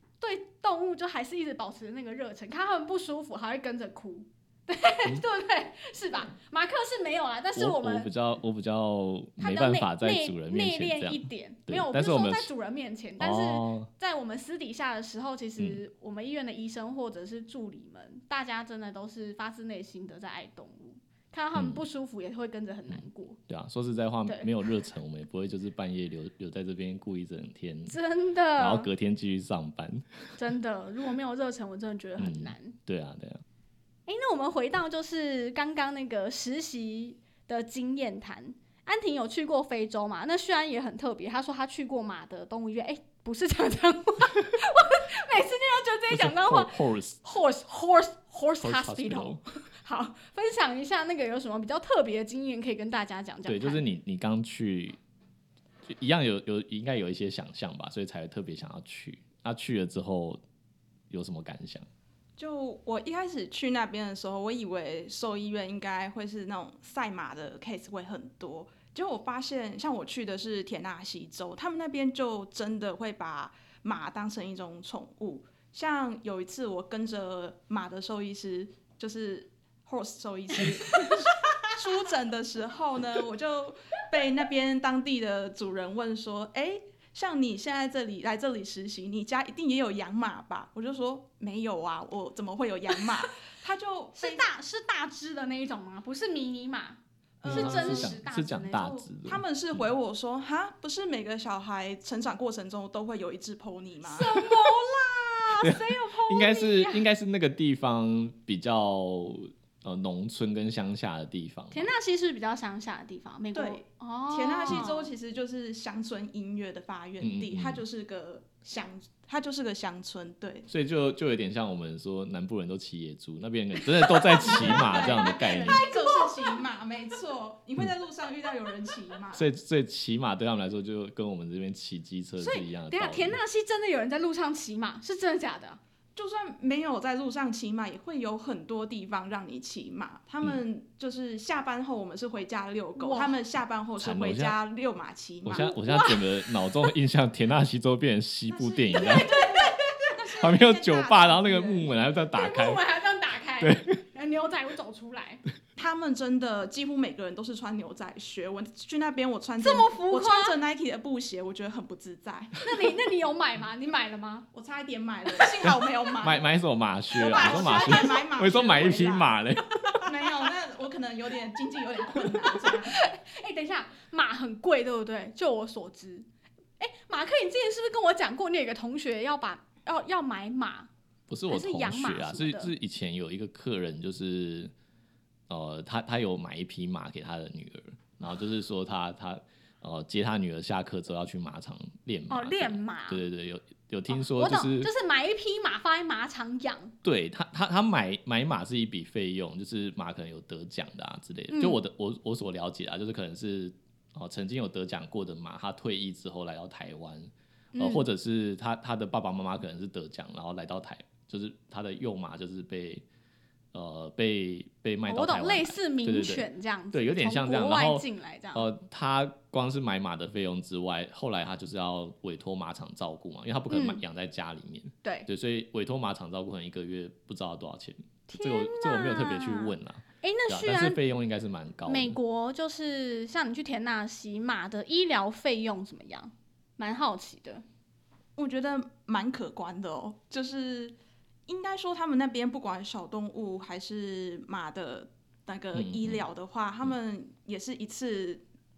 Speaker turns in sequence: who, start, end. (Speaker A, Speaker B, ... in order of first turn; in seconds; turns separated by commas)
Speaker A: 0.2-8.1, Speaker B: 7.6-12.5, Speaker A: 9.4-23.4, Speaker B: 13.2-13.9, Speaker B: 21.6-21.8, Speaker B: 22.9-28.0, Speaker A: 27.9-28.9, Speaker B: 28.6-30.4, Speaker A: 30.4-32.8, Speaker B: 32.2-33.4, Speaker A: 34.1-53.8, Speaker B: 46.1-47.2, Speaker B: 48.6-49.4, Speaker B: 53.5-55.0, Speaker B: 55.9-60.4, Speaker B: 61.1-61.9, Speaker C: 62.4-94.5, Speaker A: 80.6-81.2, Speaker A: 94.2-99.0, Speaker C: 97.4-98.2, Speaker B: 97.5-99.9, Speaker C: 98.8-104.5, Speaker A: 104.1-107.0, Speaker B: 105.6-111.9, Speaker A: 111.7-115.1, Speaker C: 113.5-120.7, Speaker B: 117.2-117.8, Speaker B: 120.7-125.8, Speaker A: 123.8-126.6, Speaker C: 124.4-129.4, Speaker B: 129.3-133.4, Speaker A: 132.4-135.8, Speaker C: 136.2-145.7, Speaker A: 143.0-143.4, Speaker B: 144.0-144.6, Speaker B: 145.4-149.3, Speaker A: 145.6-146.9, Speaker C: 148.5-152.0, Speaker A: 148.9-150.2, Speaker B: 150.4-152.8, Speaker A: 152.3-155.4, Speaker B: 153.6-154.0, Speaker C: 155.8-162.6, Speaker A: 159.6-160.6, Speaker A: 162.6-164.5, Speaker C: 164.5-166.5, Speaker B: 165.7-170.0, Speaker C: 167.1-169.4, Speaker A: 167.2-168.2, Speaker C: 170.1-173.0, Speaker A: 172.4-176.3, Speaker A: 176.8-180.9, Speaker B: 181.3-184.7, Speaker A: 181.5-182.7, Speaker B: 185.5-194.9, Speaker A: 192.3-193.2, Speaker A: 194.1-196.9, Speaker B: 197.0-213.0, Speaker A: 201.5-201.8, Speaker A: 207.7-208.1, Speaker B: 213.7-232.2, Speaker A: 215.1-218.7, Speaker A: 223.7-224.0, Speaker A: 228.3-231.0, Speaker A: 231.9-237.6, Speaker C: 238.4-240.9, Speaker C: 241.5-248.4, Speaker B: 245.7-246.2